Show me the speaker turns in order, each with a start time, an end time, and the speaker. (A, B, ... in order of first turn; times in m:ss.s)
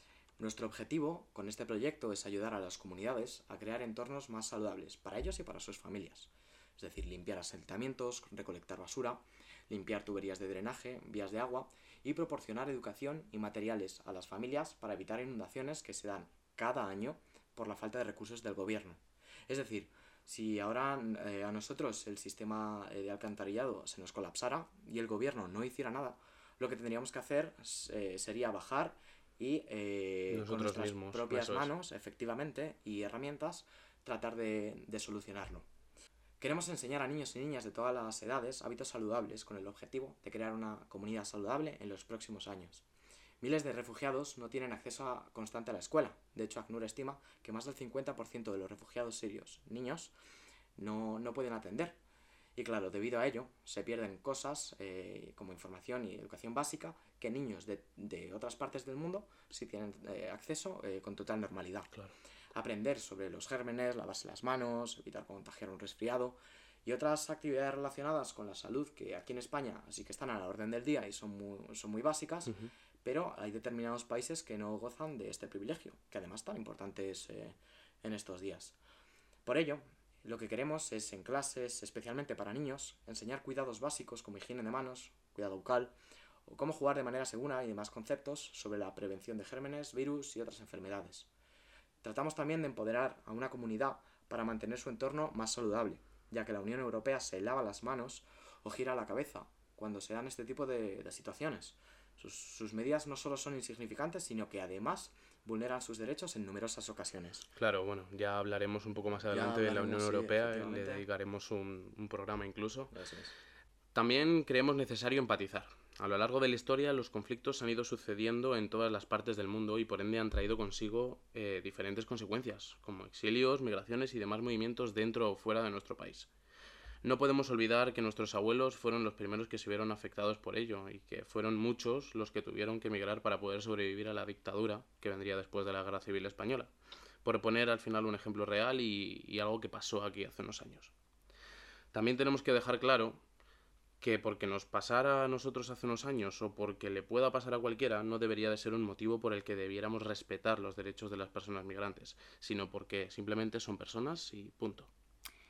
0:00.4-0:35.7 A
0:30.3-0:31.7 B
0:36.4-0:42.8 A
0:43.4-0:50.1 A
0:50.8-0:52.0 A
0:52.6-1:01.9 A
1:02.5-1:18.8 A
1:12.5-1:12.7 B
1:19.4-1:25.9 A
1:26.4-1:31.3 A
1:32.0-1:47.5 A
1:47.6-1:52.9 B
1:49.3-1:51.0 A
1:52.9-1:53.3 A
1:53.9-2:06.3 B
2:07.0-2:16.7 B
2:17.2-2:20.9 B
2:21.9-2:23.2 B
2:24.0-2:34.9 B